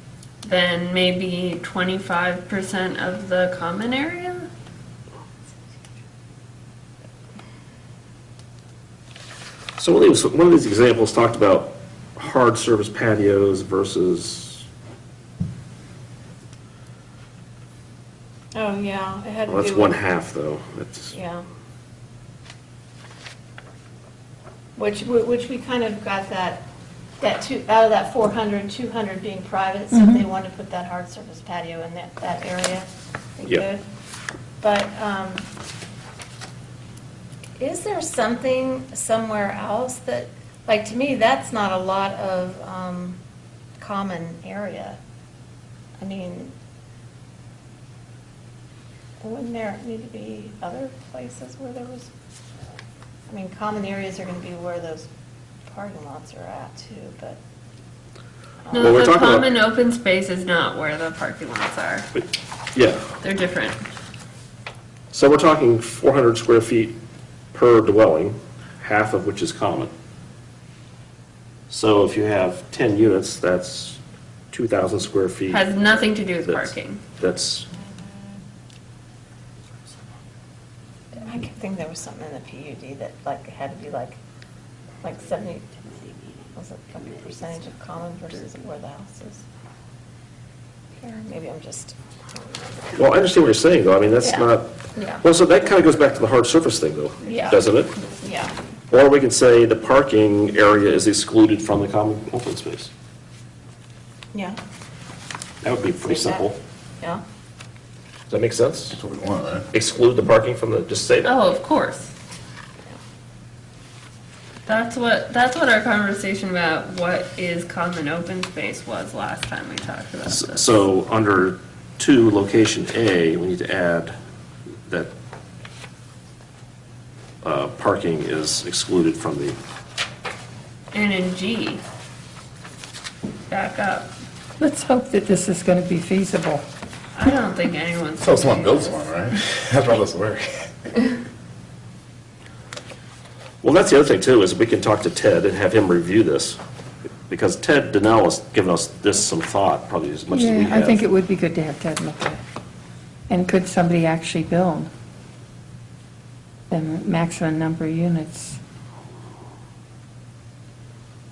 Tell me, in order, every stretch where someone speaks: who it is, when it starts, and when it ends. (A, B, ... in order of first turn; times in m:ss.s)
0:00.4-0:04.5 A
0:09.8-0:14.6 B
0:18.5-0:20.0 C
0:19.5-0:21.1 B
0:21.1-0:21.4 C
0:24.8-0:26.6 C
0:27.2-0:32.9 C
0:29.9-0:30.3 D
0:33.4-0:33.8 C
0:34.6-0:35.4 C
0:37.6-0:43.2 C
0:43.8-0:45.0 C
0:46.0-0:46.5 C
0:49.2-0:52.1 C
0:53.3-0:55.1 C
0:55.7-0:57.4 C
0:58.6-0:59.0 C
0:58.7-1:02.1 A
0:58.7-0:59.5 B
1:02.1-1:03.0 B
1:03.2-1:03.8 A
1:05.1-1:06.9 B
1:07.5-1:09.9 B
1:11.7-1:14.0 B
1:14.5-1:17.7 B
1:15.5-1:17.0 A
1:21.2-1:24.2 C
1:25.0-1:25.8 C
1:26.5-1:29.4 C
1:31.0-1:33.0 C
1:32.9-1:37.9 B
1:34.2-1:35.2 C
1:37.2-1:38.5 C
1:38.9-1:42.9 B
1:44.3-1:44.6 C
1:45.6-1:46.6 B
1:46.0-1:46.4 C
1:48.3-1:49.0 B
1:48.9-1:49.6 E
1:49.7-1:51.3 B
1:51.2-1:52.1 A
1:54.7-2:00.8 A
2:00.3-2:04.2 B
2:04.9-2:05.1 B
2:07.4-2:09.6 B
2:10.9-2:11.8 A
2:13.5-2:14.1 A
2:14.6-2:16.6 D
2:17.1-2:19.0 A
2:18.2-2:20.7 E
2:23.6-2:26.6 B
2:27.3-2:31.0 B
2:30.3-2:32.4 D
2:33.3-2:34.9 D
2:36.7-2:38.6 D